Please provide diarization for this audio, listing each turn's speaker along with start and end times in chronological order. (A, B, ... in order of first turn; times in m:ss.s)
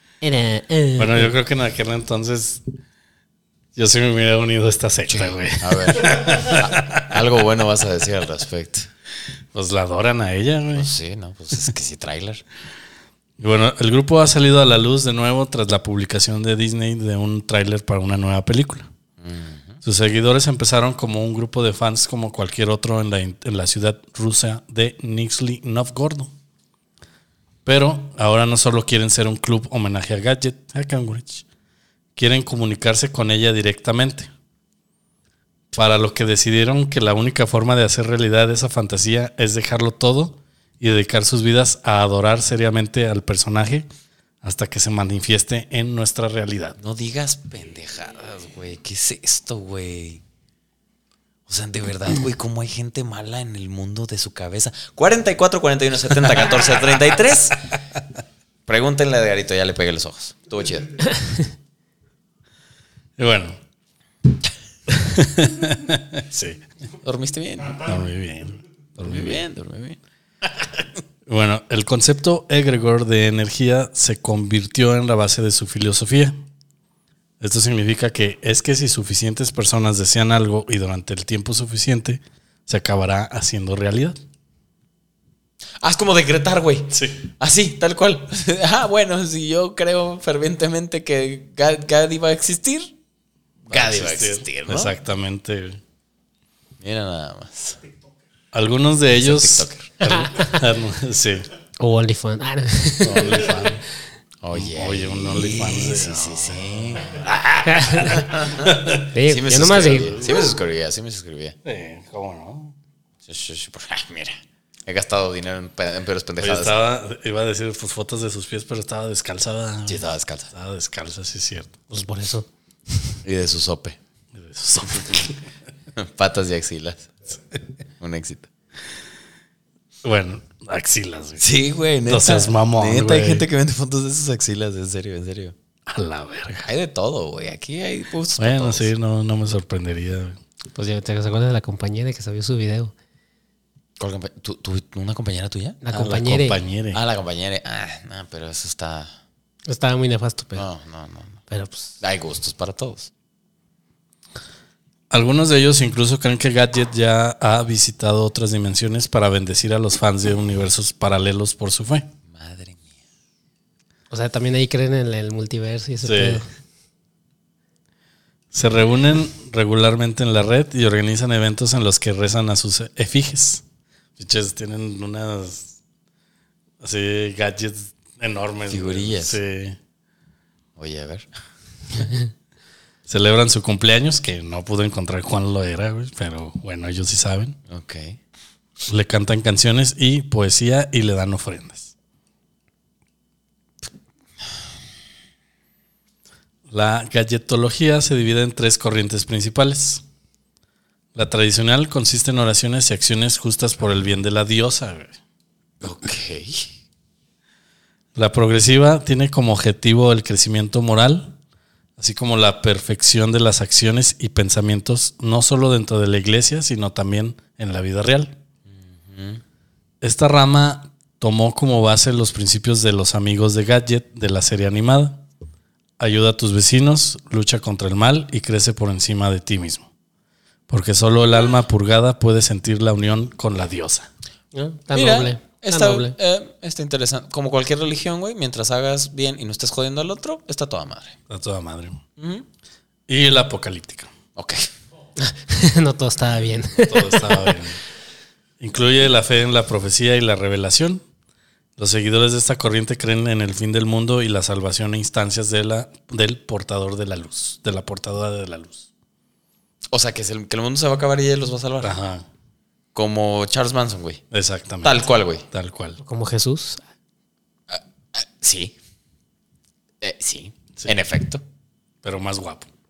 0:00.2-0:01.3 A
0:01.0-0:02.6 B
0:03.8-0:07.3 B
0:05.1-0:08.9 C
0:09.5-0:10.9 B
0:10.7-0:12.4 C
0:13.4-0:18.9 B
0:19.2-0:19.8 C
0:19.8-0:26.3 B
0:27.6-0:31.4 B
0:32.2-0:34.3 B
0:35.7-0:43.9 B
0:44.4-0:46.8 B
0:46.8-0:50.2 C
0:51.5-0:57.7 C
0:58.7-1:01.1 C
1:03.2-1:03.6 B
1:04.9-1:06.6 B
1:07.0-1:07.9 C
1:07.8-1:09.4 B
1:09.0-1:10.0 C
1:11.2-1:16.3 B
1:17.4-1:24.2 B
1:25.8-1:32.9 C
1:26.9-1:27.3 B
1:33.6-1:35.8 B
1:33.7-1:34.9 C
1:36.8-1:37.8 C
1:38.5-1:41.5 B
1:39.1-1:40.0 C
1:40.1-1:40.5 A
1:41.8-1:43.7 A
1:43.0-1:43.8 B
1:44.4-1:51.6 C
1:44.5-1:47.1 B
1:47.6-1:48.3 A
1:47.9-1:49.1 B
1:49.1-1:50.2 A
1:51.6-1:52.7 B
1:53.2-1:56.7 C
1:56.4-2:01.7 B
1:59.9-2:00.5 C
2:01.9-2:02.5 A
2:03.2-2:04.0 C
2:04.3-2:05.5 B
2:06.0-2:07.1 C
2:08.0-2:08.5 C
2:10.0-2:11.4 B
2:11.4-2:15.5 C
2:12.1-2:13.4 B
2:15.9-2:16.7 B
2:16.6-2:18.9 C
2:18.4-2:20.4 B
2:20.7-2:22.9 A
2:24.0-2:25.8 C
2:25.8-2:26.6 A
2:25.9-2:27.0 B
2:26.9-2:29.1 C
2:29.7-2:30.6 A
2:30.5-2:31.4 C
2:31.5-2:31.9 A
2:32.0-2:33.1 C
2:35.1-2:42.1 B
2:42.3-2:42.9 C
2:44.1-2:46.4 A
2:46.0-2:46.4 B
2:48.5-2:53.6 B
2:54.2-2:55.8 B
2:56.8-2:59.8 B
2:58.7-2:59.4 C
3:00.8-3:01.3 C
3:03.1-3:07.6 B
3:07.7-3:08.2 C
3:08.9-3:11.9 B
3:16.7-3:20.0 B
3:21.1-3:25.2 B
3:25.8-3:26.7 C
3:28.1-3:31.4 B
3:32.0-3:38.4 B
3:38.7-3:39.4 C
3:40.0-3:45.2 B
3:46.0-3:49.9 B
3:50.7-3:54.1 B
3:54.5-3:56.1 A
3:54.9-4:01.2 C
4:01.3-4:02.0 B
4:02.2-4:02.4 C
4:03.1-4:04.1 B
4:04.4-4:04.7 C
4:05.2-4:07.6 A
4:06.8-4:07.8 B
4:08.6-4:11.0 B
4:11.8-4:18.9 B
4:19.9-4:22.0 C
4:21.8-4:22.2 B
4:22.9-4:24.2 C
4:24.3-4:26.0 B
4:24.8-4:25.4 C
4:26.0-4:26.8 A
4:27.7-4:28.7 C
4:30.0-4:31.4 C
4:32.0-4:32.7 B